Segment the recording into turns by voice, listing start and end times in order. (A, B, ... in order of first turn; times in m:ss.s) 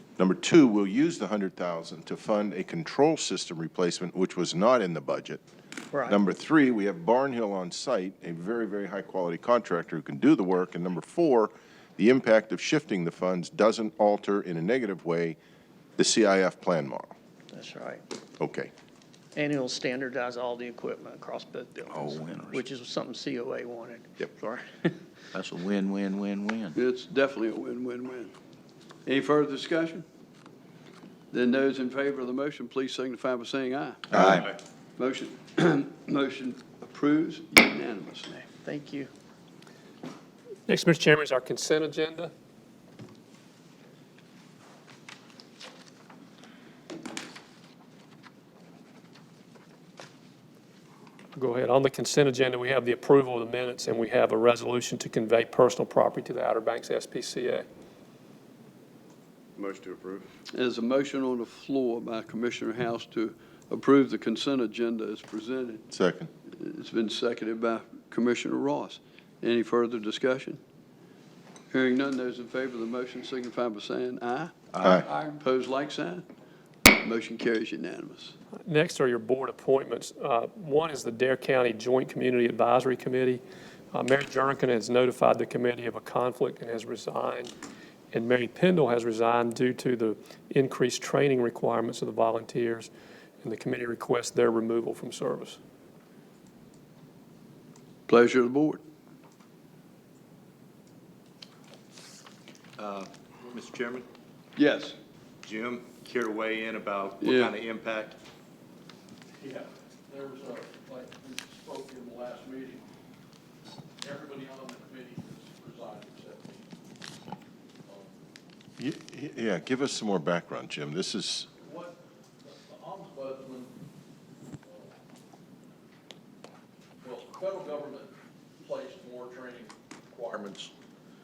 0:00.2-0:05.4 A
0:05.9-0:06.2 B
0:06.0-0:15.4 A
0:16.0-0:17.1 A
0:17.5-0:18.0 B
0:18.4-0:18.7 A
0:19.3-0:25.1 B
0:21.9-0:22.6 C
0:25.3-0:26.8 C
0:26.7-0:28.3 D
0:29.0-0:30.0 D
0:31.3-0:34.1 D
0:34.1-0:34.5 C
0:34.1-0:34.5 E
0:35.0-0:38.4 D
0:38.5-0:39.1 B
0:40.7-0:42.3 F
0:51.3-0:57.6 F
0:59.6-1:00.2 E
1:00.5-1:05.8 D
1:05.9-1:06.3 A
1:06.6-1:10.6 D
1:11.7-1:16.2 D
1:16.9-1:18.3 D
1:18.6-1:23.4 F
1:23.9-1:27.5 F
1:28.1-1:32.9 F
1:33.4-1:35.6 F
1:38.1-1:38.8 D
1:42.8-1:44.0 E
1:44.6-1:45.0 D
1:45.4-1:48.2 E
1:47.2-1:47.6 D
1:49.4-1:52.8 G
1:54.0-1:56.7 G
1:57.8-1:58.1 G
1:58.8-2:01.5 A
2:01.6-2:03.7 G
2:04.6-2:04.9 G
2:07.0-2:10.7 G